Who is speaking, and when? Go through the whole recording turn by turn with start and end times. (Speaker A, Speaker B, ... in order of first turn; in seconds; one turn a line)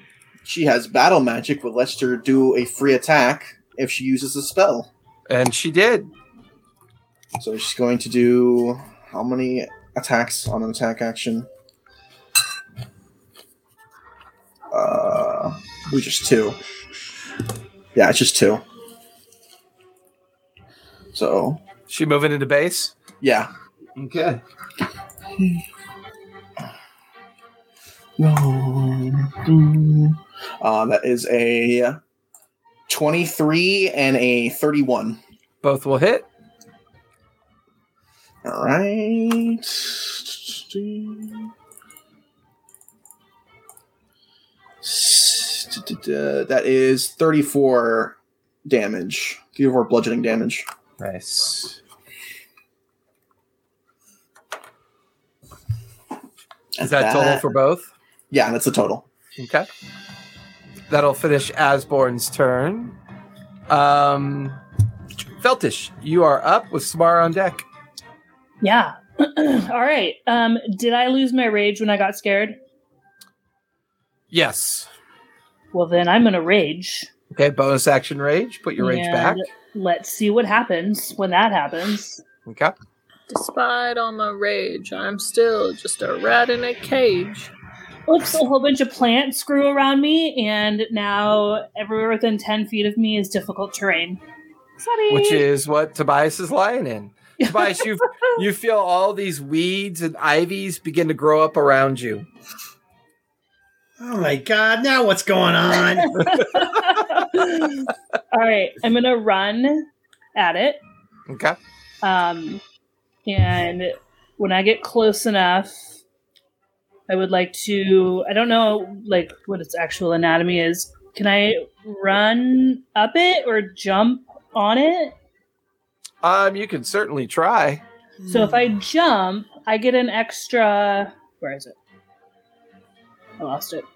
Speaker A: 0.4-4.9
Speaker B: 5.3-6.1
Speaker A: 7.4-11.5
Speaker A: 14.7-16.6
Speaker A: 17.9-18.6
Speaker A: 21.1-21.6
Speaker B: 21.9-22.9
Speaker A: 23.2-23.5
Speaker B: 24.0-24.4
Speaker A: 25.4-25.6
Speaker A: 28.2-32.0
Speaker A: 32.9-35.2
Speaker B: 35.6-36.3
Speaker A: 38.5-41.5
Speaker A: 44.8-50.7
Speaker B: 51.0-51.8
Speaker A: 56.8-57.4
Speaker B: 56.8-57.9
Speaker A: 58.3-59.0
Speaker B: 59.4-59.7
Speaker B: 60.9-63.0
Speaker B: 63.7-64.6
Speaker B: 65.4-67.7
Speaker C: 68.6-72.6
Speaker B: 74.3-74.9
Speaker C: 75.7-77.1
Speaker B: 77.3-79.4
Speaker C: 78.8-82.2
Speaker B: 82.5-82.7
Speaker D: 83.3-87.5
Speaker C: 88.1-94.2
Speaker C: 94.8-95.4
Speaker B: 95.1-102.3
Speaker C: 97.4-98.4
Speaker E: 104.0-106.2
Speaker C: 106.0-110.8
Speaker B: 106.3-106.6
Speaker B: 111.3-111.6
Speaker C: 112.0-112.6
Speaker C: 113.3-115.9
Speaker C: 117.1-125.2
Speaker B: 126.2-127.8
Speaker E: 128.2-128.8
Speaker C: 128.3-131.8
Speaker C: 133.4-133.9